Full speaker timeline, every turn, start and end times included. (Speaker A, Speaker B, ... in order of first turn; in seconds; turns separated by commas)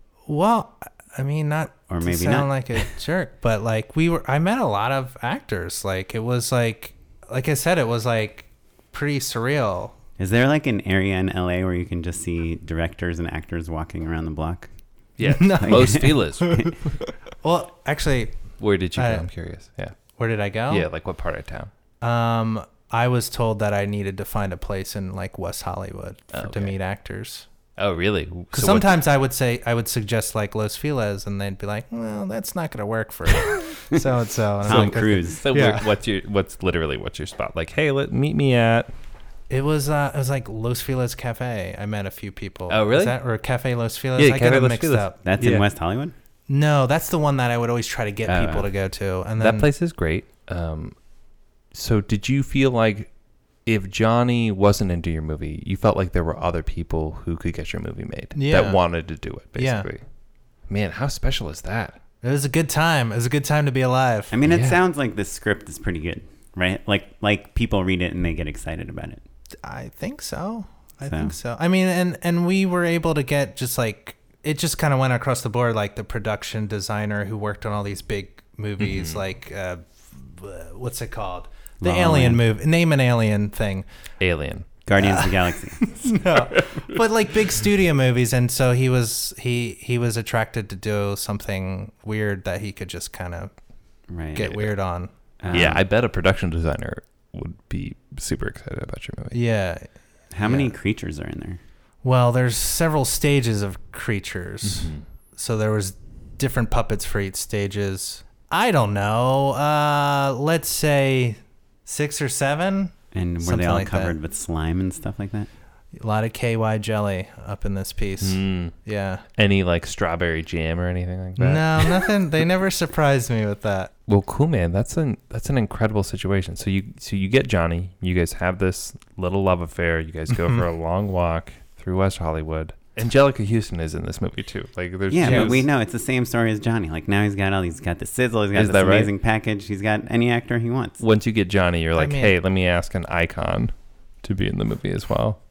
Speaker A: 0.3-9.9, Speaker B: 1.9-2.9, Speaker B: 10.2-14.7, Speaker C: 15.2-16.8, Speaker A: 15.3-18.4, Speaker B: 15.6-16.7, Speaker C: 18.6-20.0, Speaker A: 18.9-19.3, Speaker A: 20.2-20.9, Speaker C: 20.7-21.7, Speaker A: 22.0-27.4, Speaker C: 26.3-26.7, Speaker C: 27.8-28.9, Speaker A: 28.5-35.9, Speaker B: 34.6-35.4, Speaker C: 34.6-38.9, Speaker A: 39.5-45.2, Speaker C: 42.7-43.1, Speaker C: 44.2-45.6, Speaker B: 45.2-46.1, Speaker A: 46.5-49.7, Speaker B: 48.3-48.7, Speaker C: 49.4-51.0, Speaker C: 51.7-53.1, Speaker C: 53.6-60.0, Speaker A: 58.3-58.8, Speaker A: 59.5-59.9, Speaker C: 60.7-62.0, Speaker A: 62.2-64.4, Speaker B: 64.3-69.2, Speaker C: 64.4-64.8, Speaker A: 69.6-83.8, Speaker B: 71.0-71.3, Speaker C: 78.8-79.2, Speaker B: 81.8-82.4, Speaker C: 84.2-84.7, Speaker B: 84.8-86.1, Speaker A: 85.0-93.5, Speaker C: 86.5-86.8, Speaker B: 94.1-94.7, Speaker A: 94.3-95.7, Speaker B: 95.4-95.8, Speaker C: 95.5-99.4, Speaker A: 99.3-99.8, Speaker B: 100.3-101.6, Speaker A: 100.4-100.7, Speaker A: 102.0-114.1, Speaker C: 104.6-105.0, Speaker B: 113.1-115.5, Speaker A: 116.0-119.2, Speaker C: 118.2-118.7, Speaker C: 119.3-122.1, Speaker A: 121.4-123.9, Speaker C: 124.1-135.7, Speaker B: 135.1-141.0, Speaker A: 135.2-135.6, Speaker C: 138.5-139.1, Speaker C: 141.0-145.4, Speaker A: 141.9-142.3